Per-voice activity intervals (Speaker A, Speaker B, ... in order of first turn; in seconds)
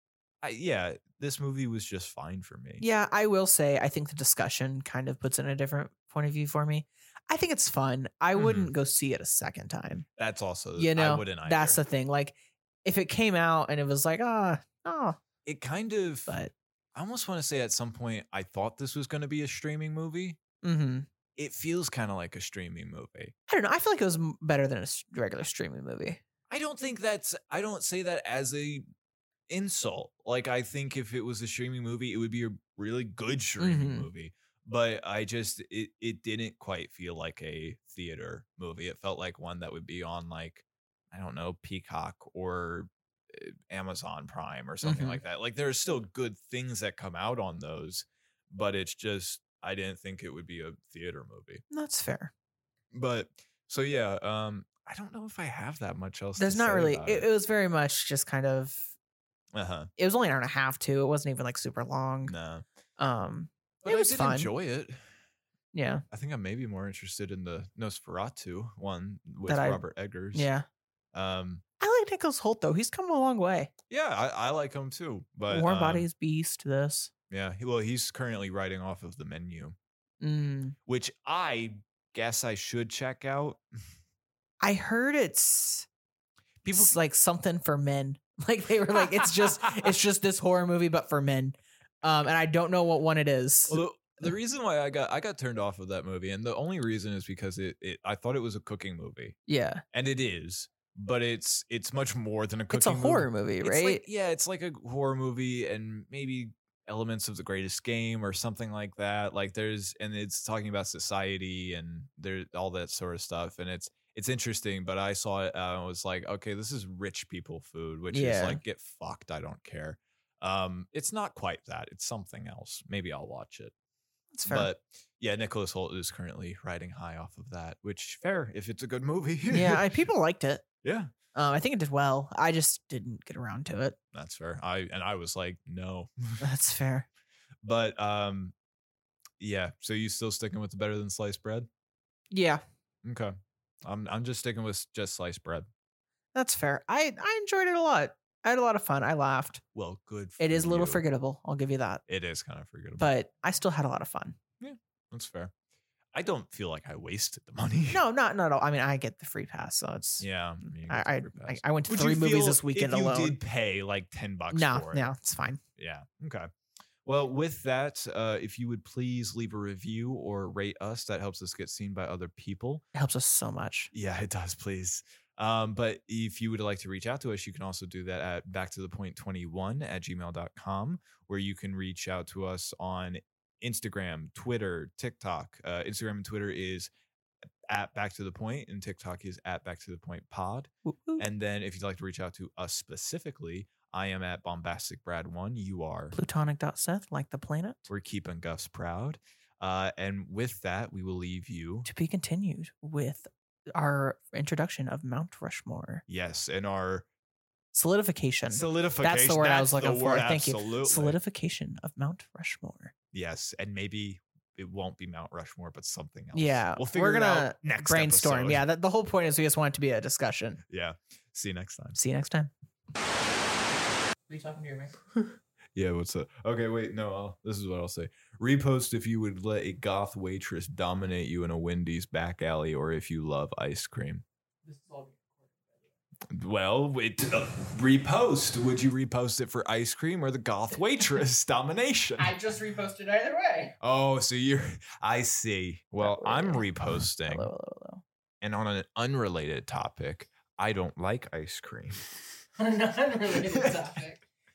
Speaker A: 0.4-2.8, 8.4-8.7, 10.2-11.8, 15.5-16.4, 16.9-20.4, 21.4-23.3, 26.5-28.9, 29.5-51.6, 52.9-57.2, 59.5-59.9, 62.3-62.6, 63.8-65.1, 66.1-70.5, 71.1-71.6, 73.9-76.1, 77.3-79.8, 80.9-83.6, 86.6-86.9, 89.0-89.9, 93.7-99.4, 99.9-123.7, 124.5-129.9, 130.8-131.1, 134.1-136.4, 137.6-138.5, 139.4-141.7, 143.0-145.7, 149.7-151.0, 152.1-153.1, 154.6-155.5, 156.1-158.0, 160.2-165.1, 165.8-166.5, 167.1-172.8, 173.9-186.9, 187.7-196.2, 197.9-201.9, 206.1-207.1, 208.5-211.2, 213.1-218.6, 220.7-222.0, 225.8-234.2, 236.3-242.3, 243.8-247.5, 248.4-252.1, 253.3-253.8
Speaker B: 2.8-10.1, 10.8-15.2, 20.6-21.1, 23.5-26.2, 33.6-34.1, 44.8-45.2, 51.7-52.3, 56.4-58.9, 60.0-62.3, 63.0-64.5, 65.7-66.0, 69.5-69.8, 70.3-70.7, 71.8-73.7, 75.5-77.1, 80.2-80.8, 84.6-85.9, 86.7-93.8, 99.5-99.8, 102.7-104.0, 118.1-118.6, 124.3-124.7, 129.5-130.6, 131.3-134.0, 136.4-137.1, 142.3-142.6, 146.3-149.6, 150.4-152.0, 153.0-154.4, 157.9-163.4, 164.5-165.6, 172.9-173.9, 190.8-191.3, 196.1-197.9, 201.8-206.0, 207.7-212.9, 216.3-220.6, 221.9-222.5, 224.3-224.9, 234.7-235.7, 242.2-243.8, 246.0-246.7, 247.2-248.0, 252.6-254.2